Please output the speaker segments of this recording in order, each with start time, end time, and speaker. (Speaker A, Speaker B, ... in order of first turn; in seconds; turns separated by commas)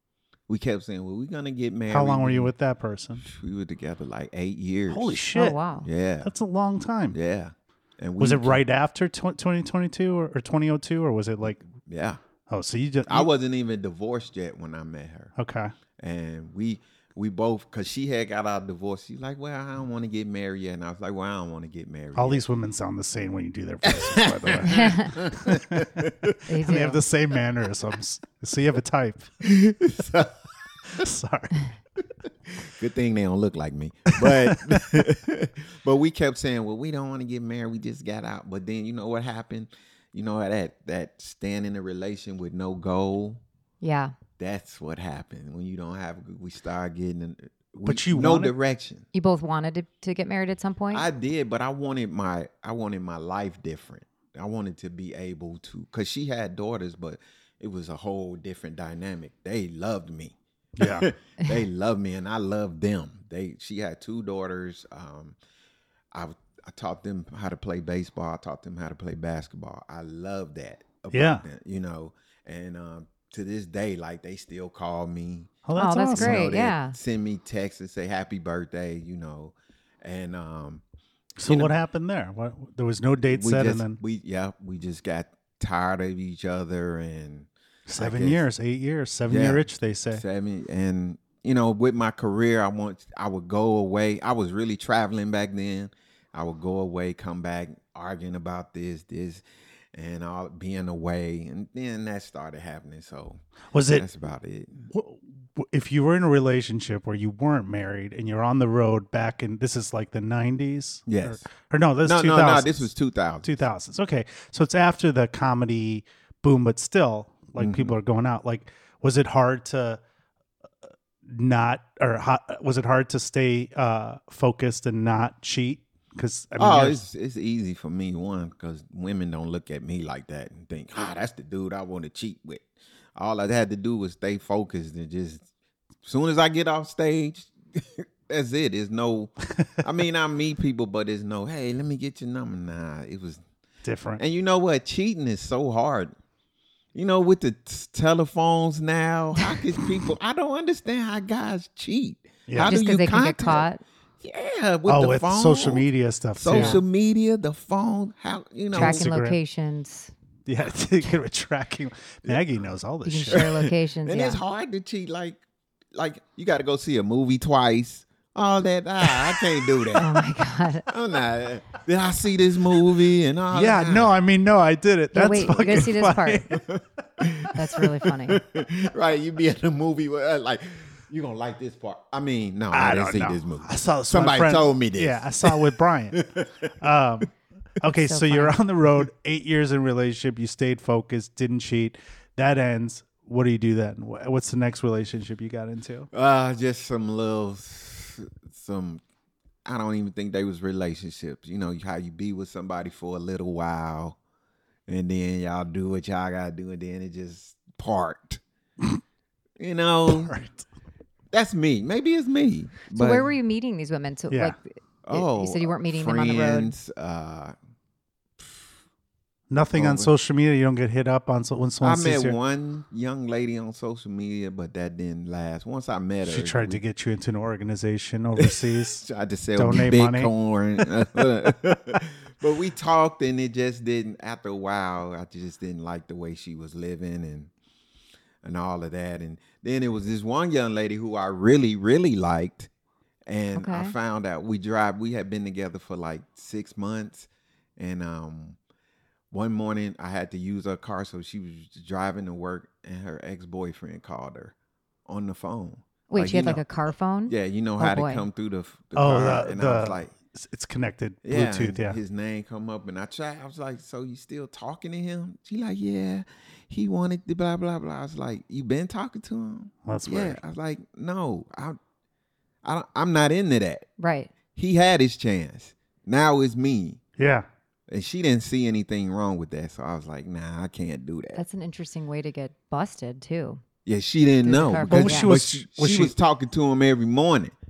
Speaker A: 0.5-2.5, Speaker B: 1.9-3.2, Speaker A: 3.2-5.2, Speaker B: 4.9-5.6, Speaker C: 5.3-5.9, Speaker A: 5.8-6.3, Speaker B: 6.2-7.2, Speaker A: 7.1-8.6, Speaker B: 8.2-11.7, Speaker A: 11.8-12.2, Speaker B: 12.5-13.3, Speaker A: 13.1-15.3, Speaker B: 15.4-15.7, Speaker A: 16.0-22.4, Speaker B: 22.1-29.3, Speaker A: 23.8-26.4, Speaker C: 24.7-25.1, Speaker C: 26.5-27.0, Speaker A: 29.4-30.4, Speaker B: 30.9-31.7, Speaker A: 32.6-43.4, Speaker B: 34.1-35.0, Speaker C: 43.8-44.1, Speaker A: 44.4-49.1, Speaker B: 47.9-48.5, Speaker C: 49.1-51.1, Speaker A: 50.9-65.4, Speaker B: 60.8-61.1, Speaker A: 66.1-75.6, Speaker B: 71.1-71.4, Speaker B: 75.7-76.4, Speaker C: 75.8-77.0, Speaker A: 76.2-80.8, Speaker B: 81.4-84.0, Speaker A: 81.4-81.7, Speaker A: 83.2-88.5, Speaker B: 87.9-90.2, Speaker A: 89.3-104.9, Speaker B: 103.7-104.1, Speaker B: 104.9-112.9, Speaker A: 111.1-111.5, Speaker A: 112.0-113.5, Speaker B: 113.4-120.0, Speaker A: 117.6-118.0, Speaker B: 121.3-127.0, Speaker A: 126.6-135.5, Speaker A: 136.0-143.4, Speaker B: 143.8-144.2, Speaker A: 144.2-146.1, Speaker A: 146.9-153.7, Speaker B: 152.5-152.8, Speaker C: 152.6-153.8, Speaker A: 154.2-155.9, Speaker B: 154.9-156.8, Speaker A: 156.4-159.1, Speaker C: 156.5-156.8, Speaker B: 158.7-159.4, Speaker C: 158.7-160.1, Speaker B: 160.5-163.5, Speaker C: 163.1-164.4, Speaker A: 163.3-165.4, Speaker A: 165.9-170.3, Speaker C: 169.9-170.9, Speaker A: 170.9-174.2, Speaker B: 173.5-176.6, Speaker C: 175.1-176.5, Speaker A: 176.5-186.7, Speaker C: 177.5-178.4, Speaker B: 182.7-186.2, Speaker B: 186.8-196.1, Speaker C: 188.0-188.6, Speaker A: 196.1-199.0, Speaker A: 199.7-204.2, Speaker A: 204.9-208.4, Speaker A: 209.6-210.4, Speaker B: 210.1-210.7, Speaker A: 211.3-213.3, Speaker C: 212.9-216.7, Speaker B: 214.3-214.6, Speaker A: 215.1-217.6, Speaker A: 218.4-218.7, Speaker B: 219.5-222.4, Speaker A: 219.7-220.1, Speaker A: 221.8-226.8, Speaker B: 226.2-229.1, Speaker A: 228.4-237.5, Speaker B: 229.6-230.3, Speaker A: 238.4-242.7, Speaker A: 243.3-248.6, Speaker C: 243.6-243.9, Speaker A: 249.3-254.5, Speaker A: 255.1-256.6, Speaker C: 256.1-258.3, Speaker A: 257.3-260.1, Speaker B: 258.9-262.0, Speaker A: 261.2-271.8, Speaker B: 269.9-270.4, Speaker A: 272.6-273.9, Speaker C: 274.0-274.3, Speaker A: 274.5-277.0, Speaker B: 277.2-277.5, Speaker A: 277.9-281.4, Speaker C: 281.3-283.6, Speaker A: 283.9-287.6, Speaker C: 284.4-285.4, Speaker B: 284.9-286.1